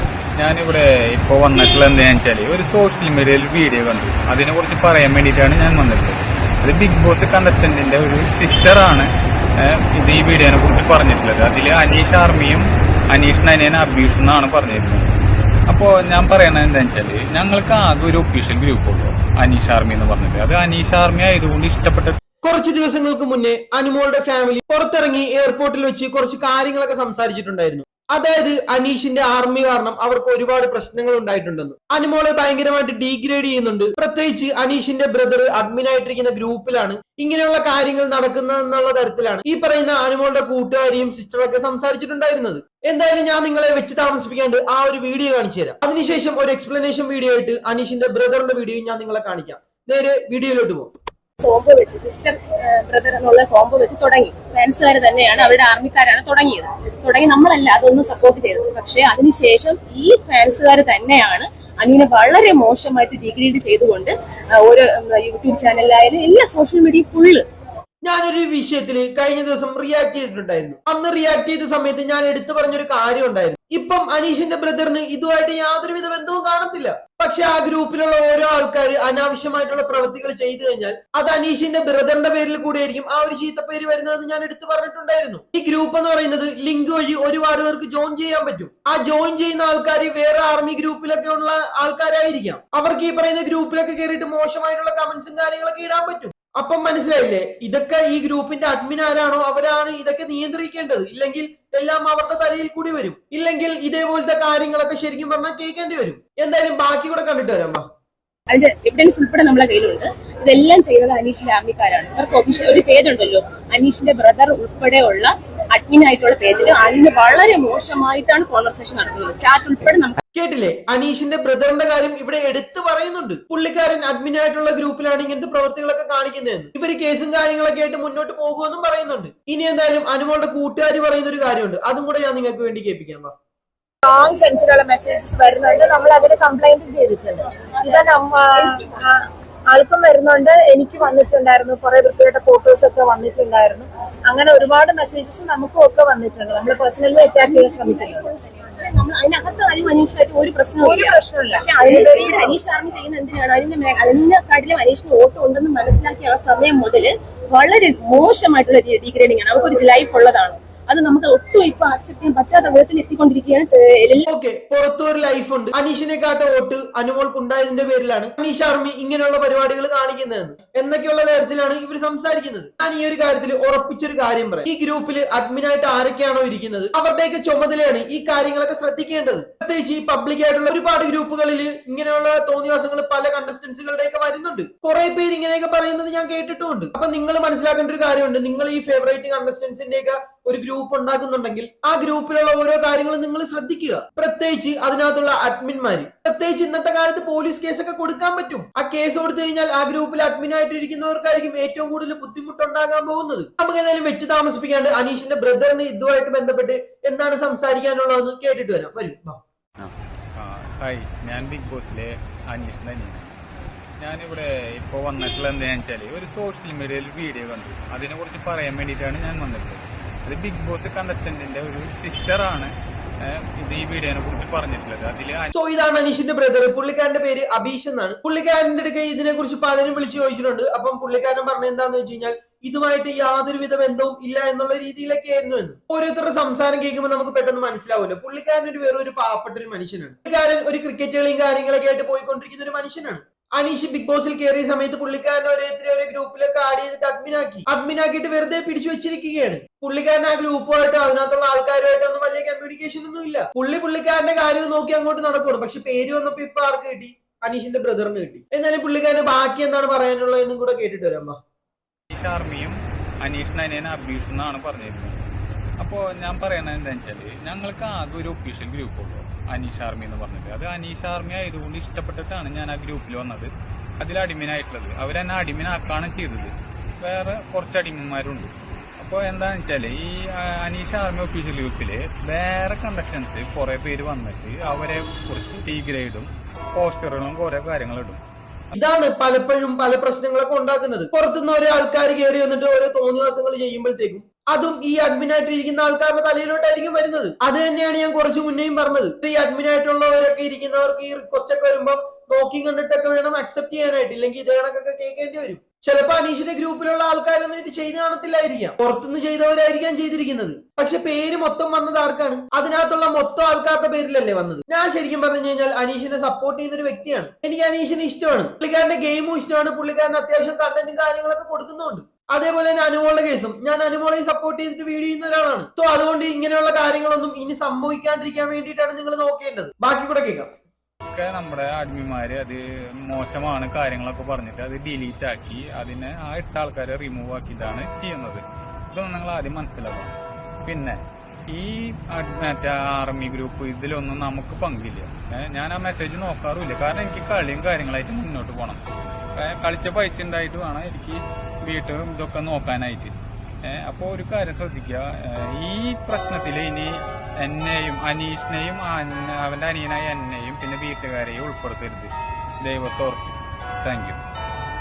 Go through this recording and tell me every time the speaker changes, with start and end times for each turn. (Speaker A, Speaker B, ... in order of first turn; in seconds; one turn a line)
Speaker A: 0.4-15.1
Speaker A: 15.7-22.1
Speaker B: 22.4-50.9
Speaker C: 51.4-67.4
Speaker B: 68.0-107.8
Speaker C: 108.5-120.2
Speaker B: 120.3-133.3
Speaker D: 134.0-148.2
Speaker C: 147.4-164.3
Speaker D: 150.8-152.5
Speaker B: 164.3-209.4
Speaker A: 209.8-213.3
Speaker A: 214.0-222.7
Speaker A: 223.2-225.5
Speaker B: 225.5-261.4
Speaker A: 262.1-265.2
Speaker A: 265.8-288.2
Speaker B: 288.7-330.5
Speaker A: 331.1-340.1
Speaker A: 340.6-348.8
Speaker A: 349.4-364.2